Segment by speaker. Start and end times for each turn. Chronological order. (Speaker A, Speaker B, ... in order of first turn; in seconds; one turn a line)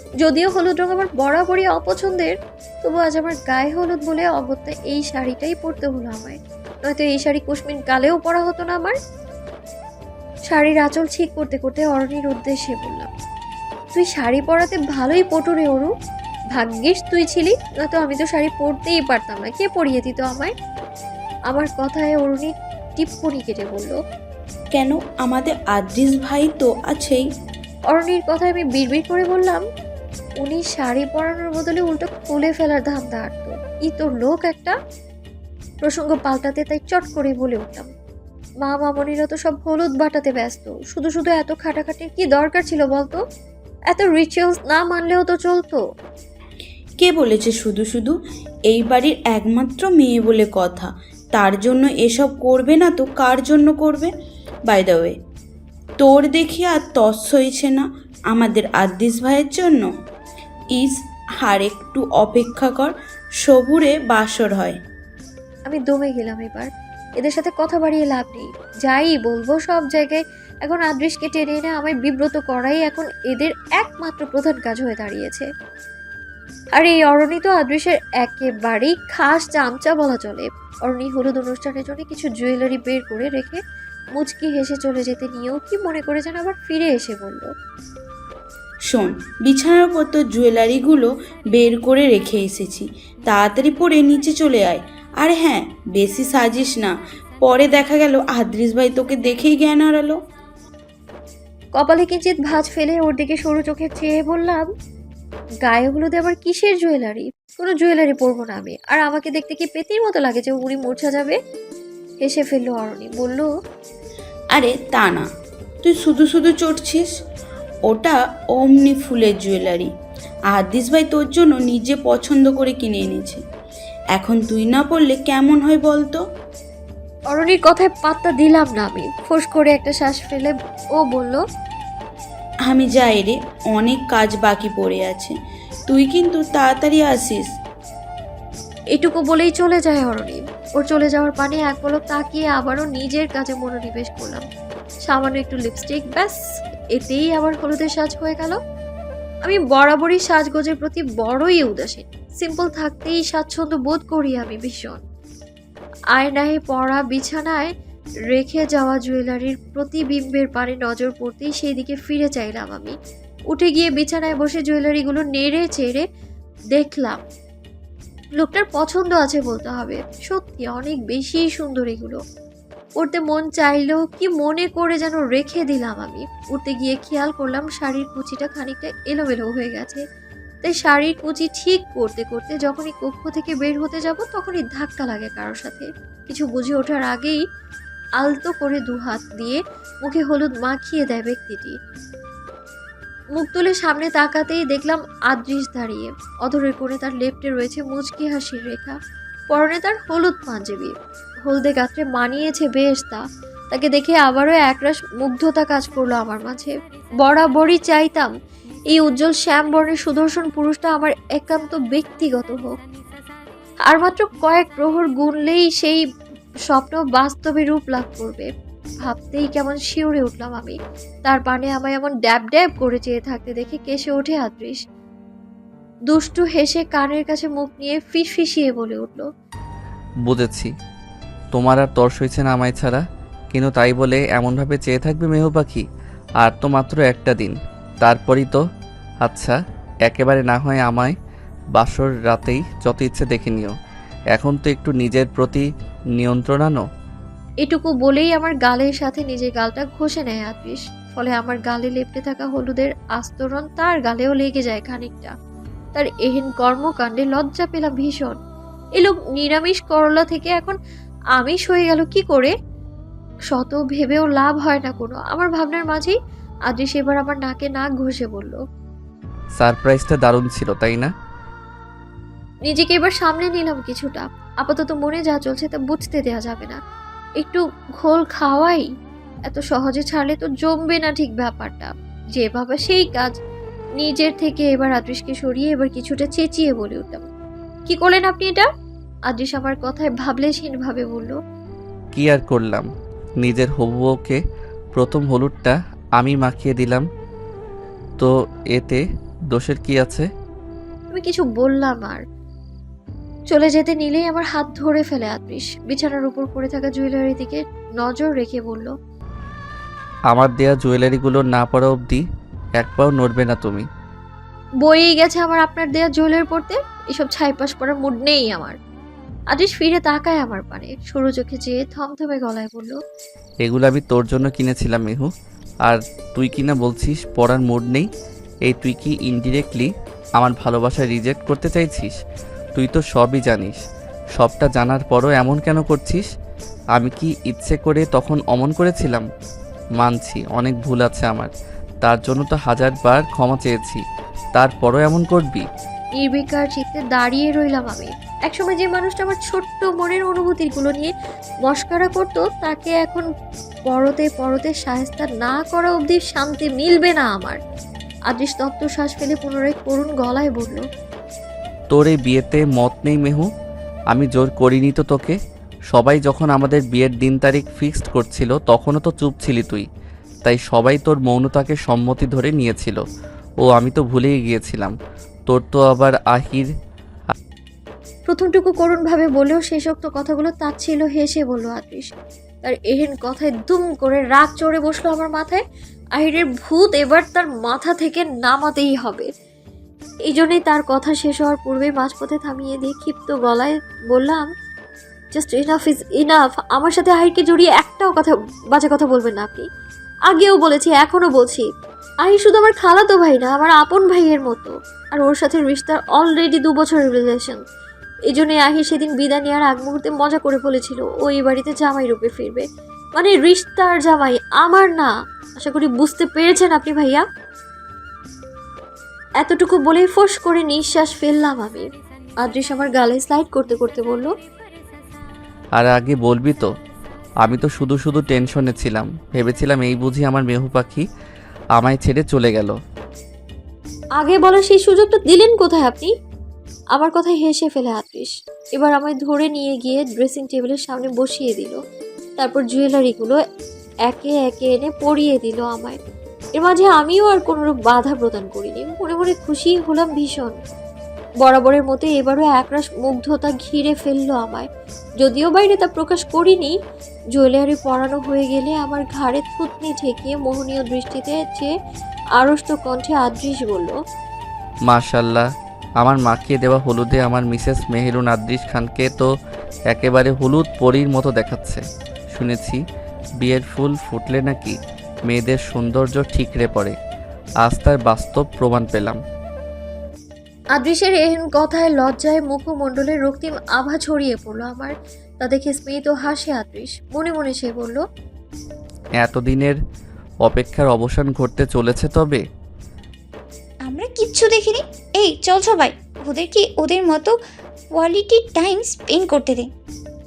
Speaker A: 0.2-8.9
Speaker A: 10.5-13.1
Speaker A: 13.9-15.9
Speaker A: 16.5-20.5
Speaker A: 21.5-24.0
Speaker B: 24.8-27.2
Speaker A: 27.9-29.6
Speaker A: 30.4-34.8
Speaker A: 35.8-37.9
Speaker A: 38.6-43.2
Speaker A: 43.9-45.8
Speaker B: 47.0-48.2
Speaker B: 48.7-54.1
Speaker B: 54.7-55.2
Speaker B: 56.0-59.9
Speaker B: 60.8-62.9
Speaker B: 63.4-64.8
Speaker A: 65.7-75.5
Speaker A: 76.7-83.6
Speaker A: 84.2-87.5
Speaker B: 88.9-100.2
Speaker A: 101.7-104.7
Speaker A: 105.6-111.4
Speaker A: 112.2-113.5
Speaker B: 114.5-115.3
Speaker B: 115.8-117.1
Speaker B: 117.9-119.9
Speaker B: 120.5-123.4
Speaker B: 124.1-126.2
Speaker A: 127.3-131.4
Speaker B: 132.7-135.3
Speaker B: 135.9-137.5
Speaker A: 138.9-144.4
Speaker A: 145.1-146.4
Speaker A: 146.9-148.6
Speaker A: 149.4-155.0
Speaker A: 156.1-157.7
Speaker A: 158.3-162.9
Speaker A: 163.5-166.0
Speaker A: 166.7-167.2
Speaker A: 168.3-172.2
Speaker A: 173.0-180.0
Speaker A: 180.6-187.4
Speaker A: 188.2-191.8
Speaker A: 193.4-199.0
Speaker A: 199.5-200.9
Speaker A: 201.4-208.3
Speaker A: 208.9-212.7
Speaker A: 213.9-216.0
Speaker A: 216.7-218.5
Speaker A: 219.0-224.8
Speaker A: 226.1-229.3
Speaker C: 230.2-230.7
Speaker C: 231.5-235.8
Speaker C: 236.4-238.6
Speaker C: 239.2-241.1
Speaker C: 241.7-243.7
Speaker C: 244.3-245.7
Speaker C: 246.2-246.8
Speaker A: 247.6-255.3
Speaker A: 255.9-258.4
Speaker A: 259.0-260.8
Speaker A: 261.4-262.5
Speaker A: 263.5-266.1
Speaker A: 266.7-268.6
Speaker C: 269.6-271.1
Speaker A: 272.7-276.8
Speaker A: 277.4-278.9
Speaker A: 279.5-283.4
Speaker A: 284.0-287.2
Speaker A: 287.9-288.7
Speaker A: 289.3-291.4
Speaker C: 292.1-292.9
Speaker C: 293.4-294.4
Speaker C: 294.9-297.1
Speaker C: 298.2-300.3
Speaker A: 301.1-302.2
Speaker A: 303.5-308.9
Speaker C: 310.3-312.2
Speaker C: 312.8-313.9
Speaker A: 314.8-318.8
Speaker A: 319.5-323.0
Speaker C: 323.6-325.3
Speaker C: 325.8-328.1
Speaker C: 328.6-332.1
Speaker C: 332.8-333.8
Speaker C: 334.4-336.3
Speaker C: 336.9-339.2
Speaker C: 340.0-344.0
Speaker C: 344.5-345.7
Speaker A: 346.2-351.1
Speaker A: 351.6-353.3
Speaker A: 353.9-357.6
Speaker A: 358.3-360.8
Speaker C: 361.9-363.5
Speaker C: 364.1-365.4
Speaker C: 365.9-369.9
Speaker C: 370.4-373.0
Speaker C: 373.6-374.9
Speaker C: 375.5-376.7
Speaker A: 378.3-382.1
Speaker A: 382.6-385.6
Speaker A: 386.2-389.3
Speaker A: 390.3-394.5
Speaker A: 395.3-399.7
Speaker A: 400.3-401.7
Speaker A: 402.2-407.6
Speaker A: 408.3-417.2
Speaker A: 419.4-421.9
Speaker A: 422.4-424.3
Speaker C: 425.8-426.7
Speaker C: 427.4-431.0
Speaker C: 431.8-432.8
Speaker A: 434.2-436.1
Speaker A: 436.9-441.8
Speaker A: 442.4-443.4
Speaker A: 444.1-446.0
Speaker A: 446.6-450.6
Speaker A: 451.4-454.7
Speaker A: 455.2-456.8
Speaker A: 457.3-461.7
Speaker A: 462.4-464.0
Speaker C: 464.9-465.4
Speaker C: 466.0-469.3
Speaker C: 469.9-472.8
Speaker C: 473.4-474.8
Speaker C: 475.3-476.9
Speaker C: 477.6-479.2
Speaker A: 480.8-488.0
Speaker C: 489.2-489.8
Speaker C: 490.4-492.4
Speaker D: 493.9-497.4
Speaker D: 497.9-499.7